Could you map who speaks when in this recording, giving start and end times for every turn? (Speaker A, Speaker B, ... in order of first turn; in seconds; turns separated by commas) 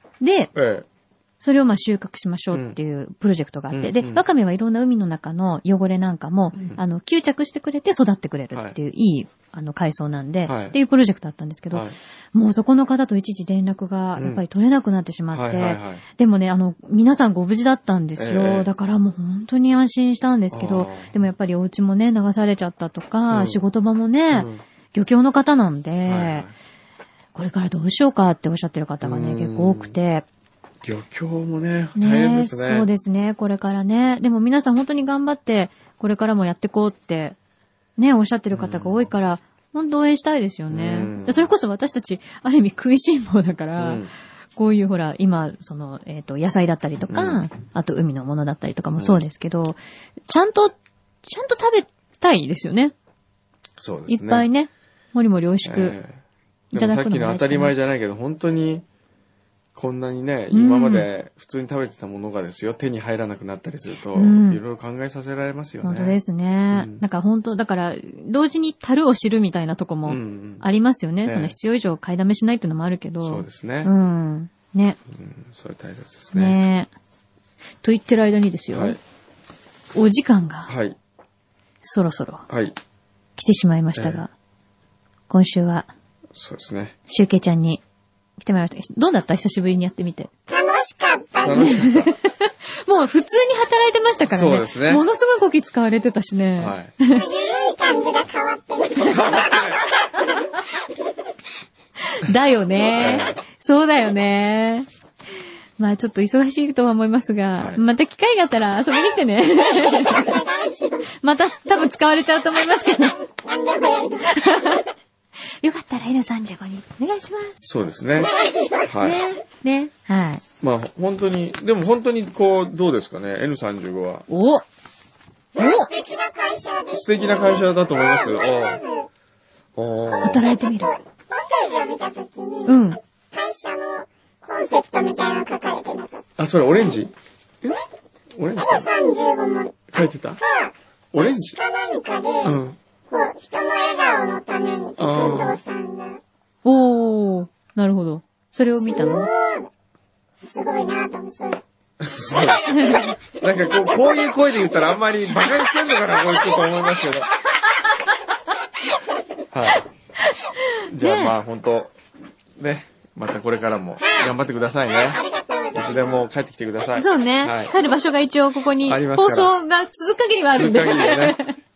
Speaker A: 0.2-0.5, Speaker B: 0.5-0.8, Speaker A: 1.4-26.4, Speaker B: 2.5-2.8, Speaker B: 3.7-4.2, Speaker B: 6.5-6.8, Speaker B: 10.5-10.8, Speaker B: 11.7-11.9, Speaker B: 14.2-14.4, Speaker B: 15.3-16.0, Speaker B: 18.2-18.7, Speaker B: 20.5-21.2, Speaker B: 23.3-23.6, Speaker B: 24.3-24.6, Speaker B: 26.0-26.5, Speaker A: 27.3-30.2, Speaker B: 29.0-29.9, Speaker B: 30.8-32.9, Speaker A: 31.9-37.4, Speaker A: 38.0-52.9, Speaker B: 38.5-39.1, Speaker B: 40.7-41.5, Speaker B: 43.8-44.1, Speaker B: 47.1-47.4, Speaker B: 53.8-54.5, Speaker A: 54.1-56.0, Speaker B: 55.6-56.2, Speaker B: 56.7-58.9, Speaker A: 56.7-57.7, Speaker B: 59.7-66.2, Speaker A: 60.5-61.1, Speaker A: 64.1-64.6, Speaker A: 65.8-75.0, Speaker B: 66.7-67.0, Speaker B: 70.0-70.6, Speaker B: 71.2-71.5, Speaker B: 73.2-73.9, Speaker B: 75.1-76.6, Speaker A: 76.3-76.9, Speaker A: 77.8-79.0, Speaker B: 78.7-79.0, Speaker A: 79.9-80.7, Speaker B: 80.7-80.9, Speaker A: 81.8-82.5, Speaker B: 82.5-82.8, Speaker A: 83.4-84.3, Speaker B: 84.0-84.2, Speaker A: 85.3-85.9, Speaker B: 86.3-87.0, Speaker A: 87.1-87.8, Speaker A: 88.4-90.3, Speaker C: 90.5-91.8, Speaker B: 91.4-92.1, Speaker A: 91.5-97.2, Speaker B: 94.3-95.0, Speaker B: 96.6-96.9, Speaker C: 97.1-99.6, Speaker B: 99.0-99.9, Speaker A: 102.1-104.9, Speaker B: 103.0-103.4, Speaker A: 105.8-110.4, Speaker B: 107.5-107.8, Speaker C: 109.7-111.1, Speaker A: 111.2-113.2, Speaker C: 113.3-114.4, Speaker A: 114.3-114.8, Speaker A: 115.6-117.6, Speaker B: 117.6-119.2, Speaker C: 118.2-118.9, Speaker A: 119.0-120.4, Speaker B: 120.6-124.2, Speaker A: 124.3-124.6, Speaker A: 125.6-125.9, Speaker C: 125.6-129.1, Speaker B: 126.9-128.8, Speaker B: 129.8-130.4, Speaker A: 130.2-130.9, Speaker C: 130.8-136.2, Speaker A: 132.7-133.0, Speaker B: 136.4-137.1, Speaker B: 138.4-138.9, Speaker C: 138.6-139.8, Speaker B: 139.9-140.4, Speaker C: 140.4-146.2, Speaker B: 141.1-141.6, Speaker B: 142.4-142.8, Speaker B: 145.0-145.6, Speaker A: 146.6-149.3, Speaker C: 148.8-149.7, Speaker C: 150.4-151.6, Speaker B: 152.0-157.3, Speaker C: 152.3-153.0, Speaker A: 152.8-153.1, Speaker C: 153.7-153.9, Speaker B: 159.5-159.8, Speaker A: 160.2-161.3, Speaker B: 160.9-161.9, Speaker B: 162.6-167.7, Speaker C: 165.2-166.1, Speaker A: 166.9-171.5, Speaker B: 168.8-169.5, Speaker B: 170.5-171.4